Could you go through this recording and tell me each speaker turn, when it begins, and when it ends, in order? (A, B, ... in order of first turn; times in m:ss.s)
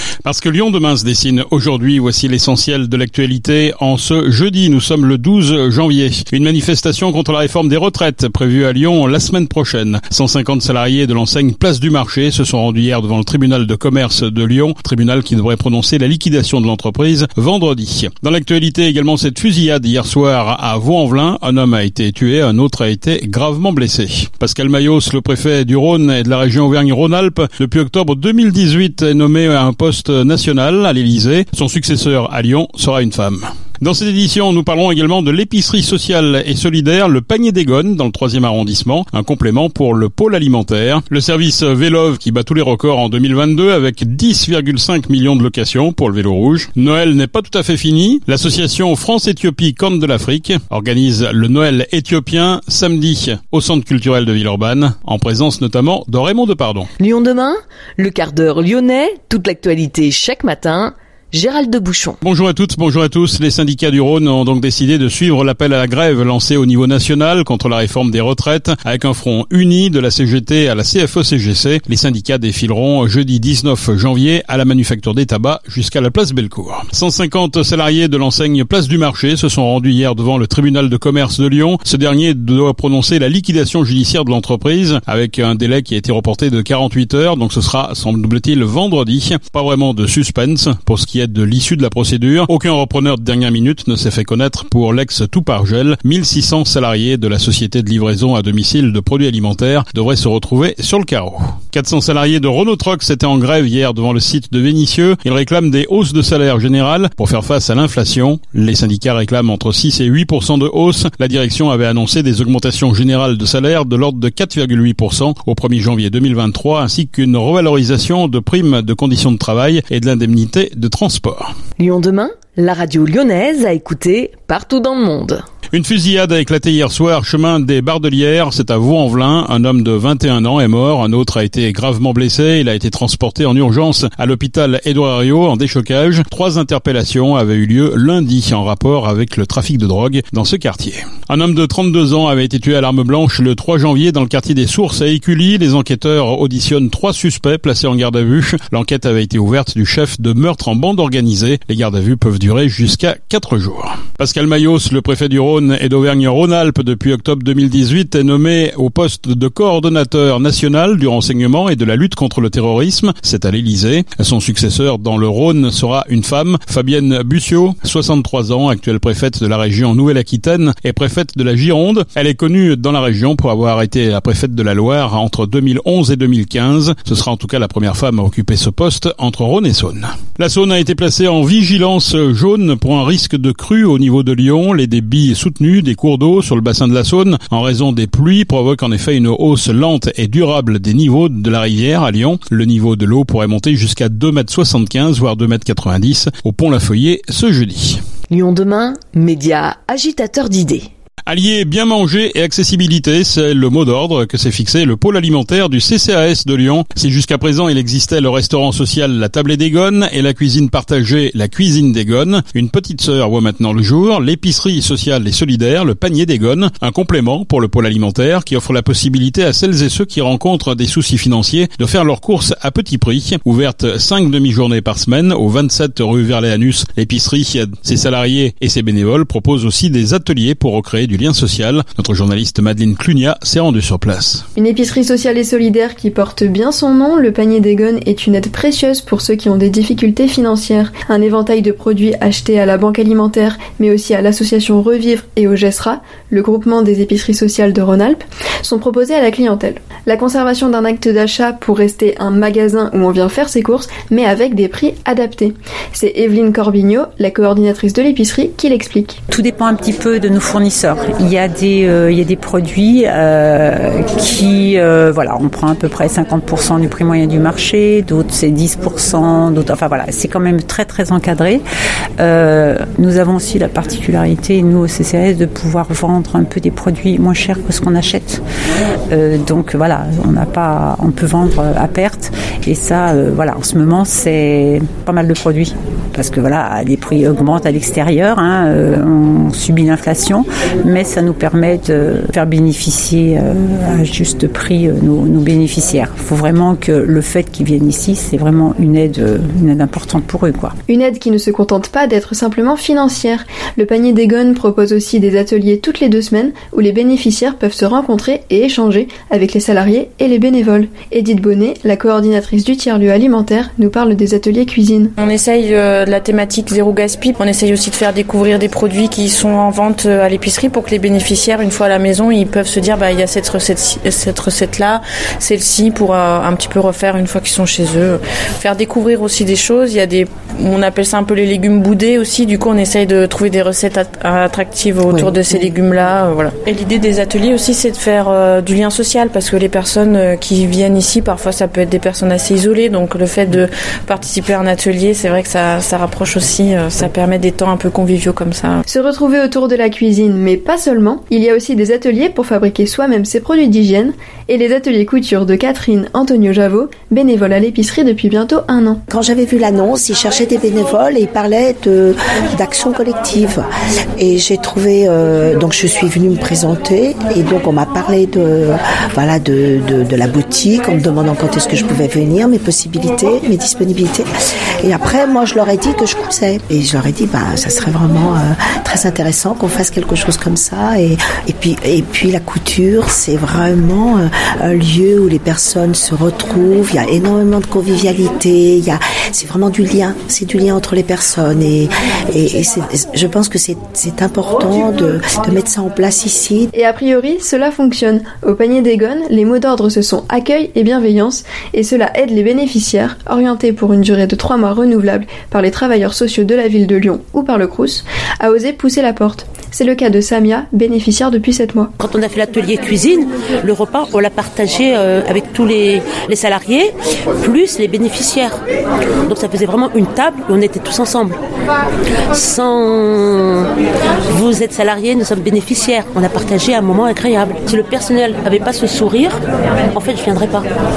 0:00.2-0:56.9 A
0:57.0-1:02.2 B
1:02.2-2:01.5 A
2:01.8-2:05.4 B
2:05.7-3:18.0 A
3:18.3-3:20.9 B
3:21.2-3:54.4 A
3:54.6-4:19.2 C
4:19.3-4:31.6 D
4:32.2-4:38.4 D
4:39.1-5:00.8 D
5:00.9-5:15.1 C
5:15.2-5:48.8 E
5:35.2-5:35.7 F
5:48.9-5:59.0 C
5:59.1-6:03.6 F
6:04.2-6:14.3 F
6:14.8-6:36.7 F
6:36.7-6:51.9 C
6:52.0-6:58.6 G
6:59.3-7:01.4 G
7:02.3-7:03.7 G
7:04.3-7:09.4 G
7:09.9-7:10.7 G